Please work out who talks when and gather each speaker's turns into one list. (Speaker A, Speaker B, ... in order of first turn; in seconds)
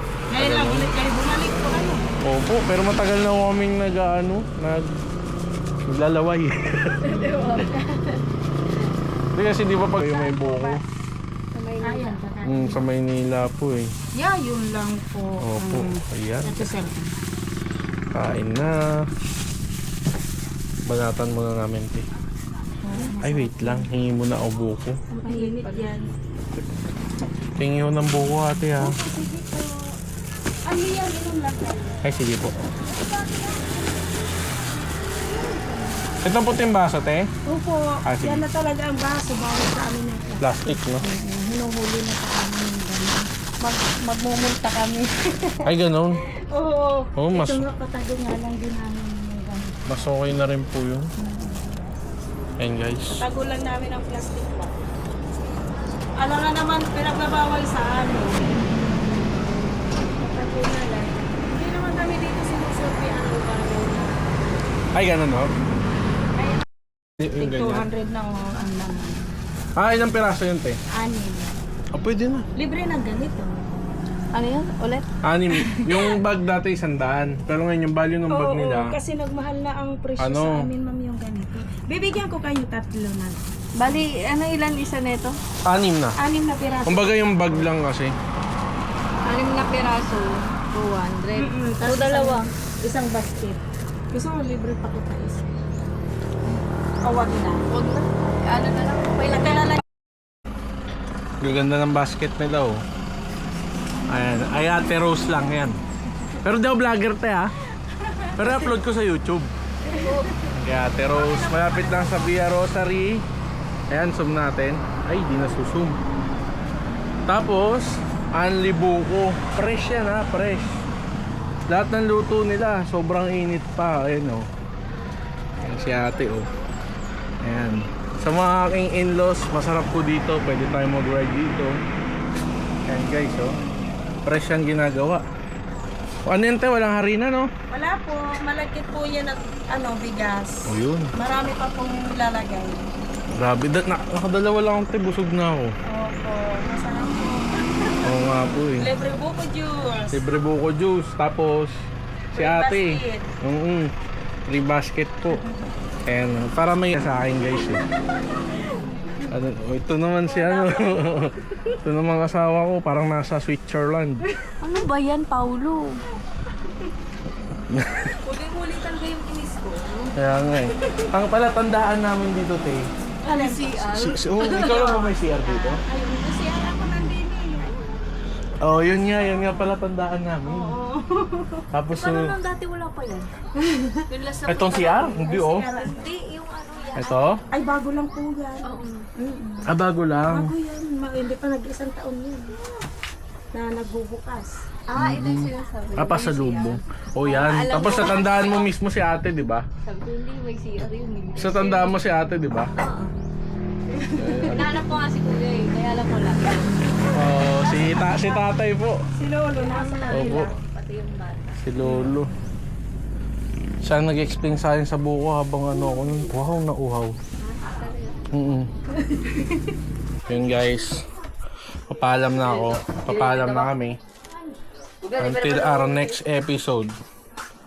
Speaker A: 0.3-2.1, 7.3-7.6, 9.9-10.8, 11.8-12.8, 14.1-17.1, 22.8-23.9, 25.2-26.1, 28.8-29.9, 30.6-32.0, 32.9-34.1, 35.4-36.0, 37.4-45.7, 46.5-49.8, 51.2-51.8, 53.1-54.7, 56.2-58.6, 60.2-64.1, 66.3-66.6, 67.3-69.2, 70.9-71.5, 72.5-73.7, 78.3-83.4, 86.2-87.3, 91.3-95.5, 97.0-97.6, 99.2-99.8, 107.9-108.6, 109.9-110.5, 111.0-112.4, 137.7-142.9, 145.9-150.3, 152.3-153.3, 155.3-155.6, 160.2-161.6, 168.3-169.8, 173.3-173.8, 174.3-177.7, 180.5-182.9, 183.6-186.1, 187.5-189.7, 190.3-192.5, 193.5-194.6, 204.1-204.6, 209.1-210.6
Speaker B: 0.4-0.9, 2.2-4.9, 5.9-7.2, 9.3-10.8, 12.4-13.9, 15.4-16.7, 18.1-18.9, 20.9-22.1, 23.2-25.0, 27.6-29.0, 32.0-32.7, 36.2-37.3, 38.0-38.5, 40.4-41.1, 45.6-46.2, 47.2-47.6, 49.9-51.0, 52.6-53.2, 64.9-65.5, 67.2-67.8, 69.8-70.8, 71.9-72.5, 75.2-79.0, 80.2-80.7, 85.7-86.2, 86.8-88.1, 101.4-102.8, 104.1-105.8, 106.4-107.5, 108.4-109.5, 110.5-113.2, 113.9-116.0, 117.3-120.8, 121.7-124.4, 125.6-126.5, 127.4-131.8, 132.8-133.6, 134.2-135.2, 136.2-137.5, 140.7-141.1, 143.3-145.7, 148.0-148.9, 150.1-151.7, 152.3-153.9, 154.5-155.4, 156.1-157.8, 159.3-164.2, 167.7-168.1, 170.2-172.8, 173.9-175.8, 178.6-180.7, 181.7-182.4, 184.5-185.7, 186.9-187.4, 189.7-190.5, 195.0-199.6, 201.3-202.7, 204.2-205.1, 207.1-209.0, 210.1-210.5, 211.6-212.3, 213.8-217.1, 218.3-218.7, 220.3-221.0, 221.9-224.0, 225.2-226.9
Speaker C: 7.0-8.2, 11.5-12.2, 25.1-25.9, 74.3-76.0, 83.8-85.4, 89.2-92.5, 97.7-99.8, 109.9-110.4, 125.7-126.3, 164.6-166.0, 168.3-169.9, 173.2-175.8, 182.0-183.3, 184.1-187.4, 188.6-189.1, 194.9-198.7, 199.8-202.0, 202.8-203.1, 204.1-208.3, 209.5-212.2, 217.4-218.2, 222.6-223.7, 225.0-226.2